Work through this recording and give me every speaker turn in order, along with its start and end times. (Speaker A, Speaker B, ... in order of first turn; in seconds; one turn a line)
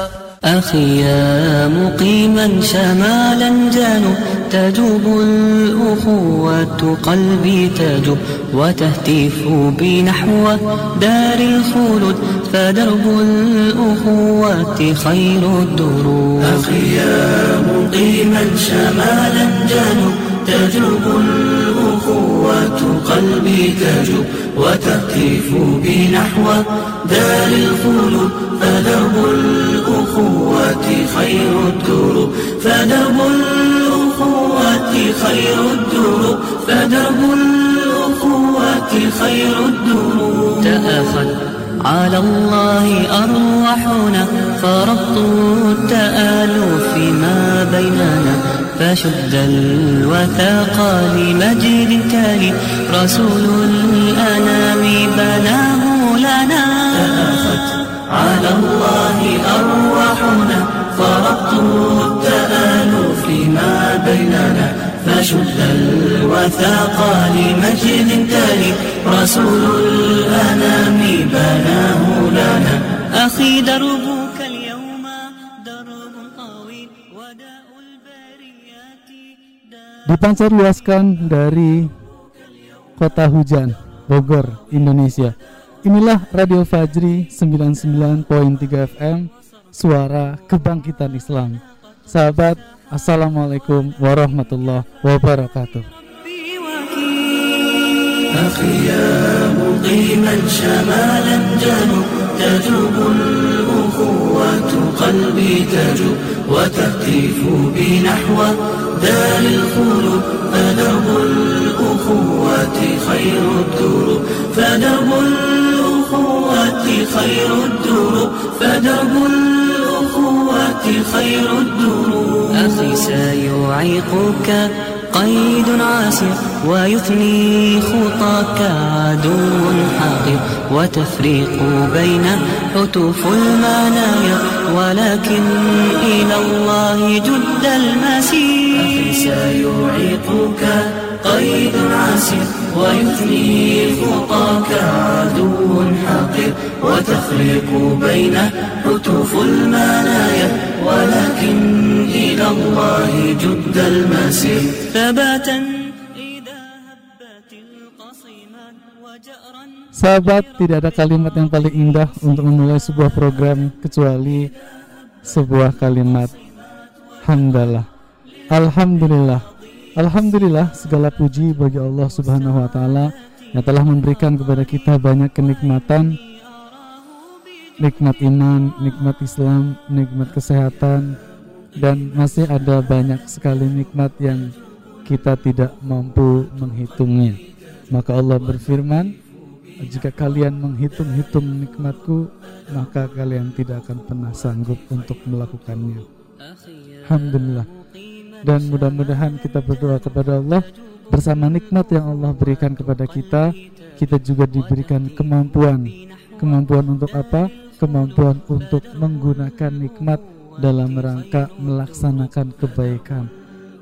Speaker A: 0.5-16.7
Speaker B: 16.4-40.7
Speaker A: 40.6-57.1
Speaker B: 56.9-72.8
Speaker A: 73.1-79.0
Speaker C: 80.1-81.9
Speaker C: 83.0-85.3
Speaker C: 85.9-95.9
Speaker A: 96.2-98.3
Speaker B: 98.3-122.7
Speaker A: 122.5-138.9
Speaker B: 138.8-154.8
Speaker A: 154.9-159.9
Speaker C: 159.9-164.5
Speaker C: 165.3-166.3
Speaker C: 167.3-167.9
Speaker C: 168.5-169.4
Speaker C: 170.0-176.2
Speaker C: 177.8-181.1
Speaker C: 181.8-184.5
Speaker C: 185.1-187.4
Speaker C: 187.9-189.1
Speaker C: 189.8-196.1
Speaker C: 197.1-197.7
Speaker C: 198.4-213.3